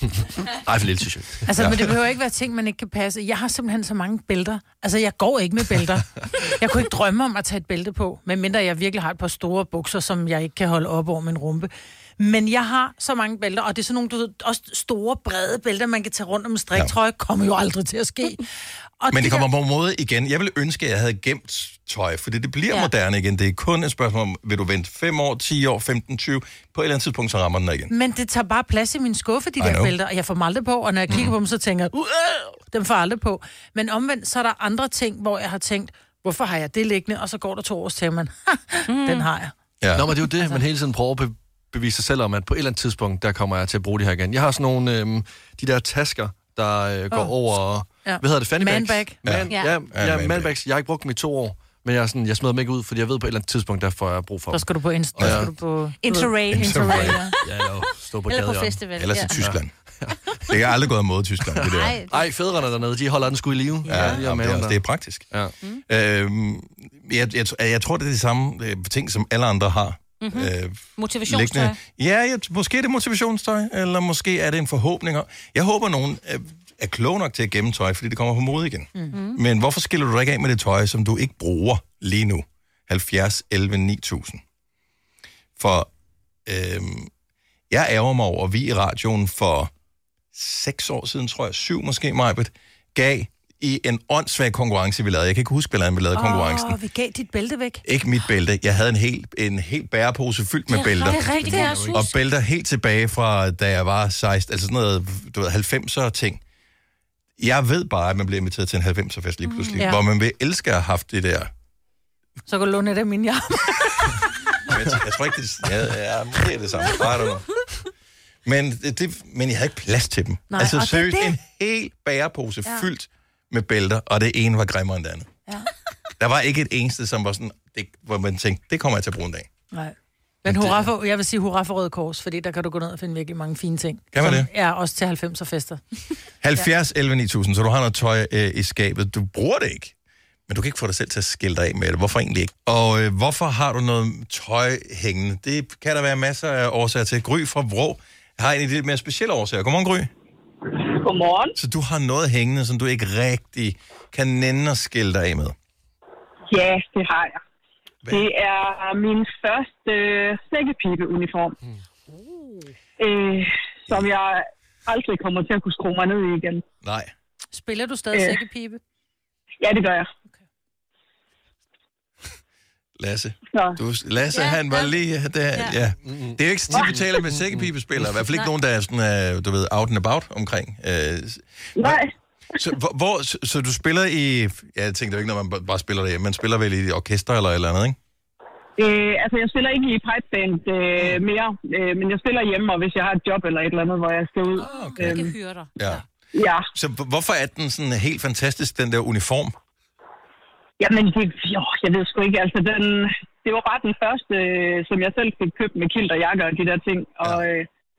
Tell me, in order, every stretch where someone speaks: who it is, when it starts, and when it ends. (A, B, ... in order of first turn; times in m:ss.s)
0:00.6-0:01.8 A
0:01.4-0:18.4 B
0:19.0-0:19.4 B
0:19.1-0:27.9 C
0:27.9-0:39.5 B
0:29.6-0:30.0 C
0:31.1-0:31.3 C
0:38.9-0:39.3 D
0:39.8-0:40.2 C
0:39.9-0:55.5 A
0:47.1-0:49.2 B
0:49.2-0:50.5 C
0:49.5-0:49.8 D
0:54.5-0:57.4 B
0:55.2-0:55.5 C
0:56.0-0:57.3 D
0:56.5-0:57.2 C
0:57.4-0:58.8 A
0:58.2-0:59.4 D
0:59.0-0:59.7 C
0:59.4-1:00.2 A
1:00.5-1:02.0 C
1:01.5-1:05.5 A
1:01.6-1:02.2 D
1:03.8-1:05.3 C
1:03.9-1:04.2 D
1:05.9-1:24.4 C
1:10.2-1:11.8 D
1:19.1-1:19.4 D
1:25.6-1:25.9 C
1:26.4-1:27.1 C
1:27.7-1:29.7 C
1:30.3-1:36.8 C
1:36.1-1:37.8 B
1:37.8-1:46.4 C
1:40.7-1:42.0 B
1:41.0-1:42.0 D
1:41.3-1:42.0 A
1:47.4-1:51.5 C
1:49.4-1:50.0 D
1:52.5-1:54.2 B
1:54.6-1:57.5 C
1:58.4-2:05.3 C
2:00.5-2:01.4 B
2:06.2-2:09.5 C
2:09.7-2:15.8 B
2:10.4-2:10.8 C
2:14.1-2:14.5 C
2:16.4-2:19.9 C
2:20.5-2:30.1 C
2:30.7-2:31.5 E
2:31.6-2:35.6 C
2:36.5-2:37.4 E
2:38.1-2:41.6 E
2:43.0-2:46.6 E
2:46.8-2:47.1 C
2:47.5-2:48.8 B
2:48.1-2:48.4 E
2:49.6-2:50.1 E
2:53.0-3:02.0 C
2:53.5-2:53.8 E
2:54.3-2:54.9 D
2:56.0-2:58.1 A
3:01.8-3:02.1 E
3:02.6-3:08.0 C
3:08.8-3:15.4 E
3:14.6-3:15.1 C
3:14.6-3:16.0 D
3:15.8-3:16.0 C
3:16.3-3:16.7 E
3:16.7-3:19.6 C
3:20.8-3:27.7 E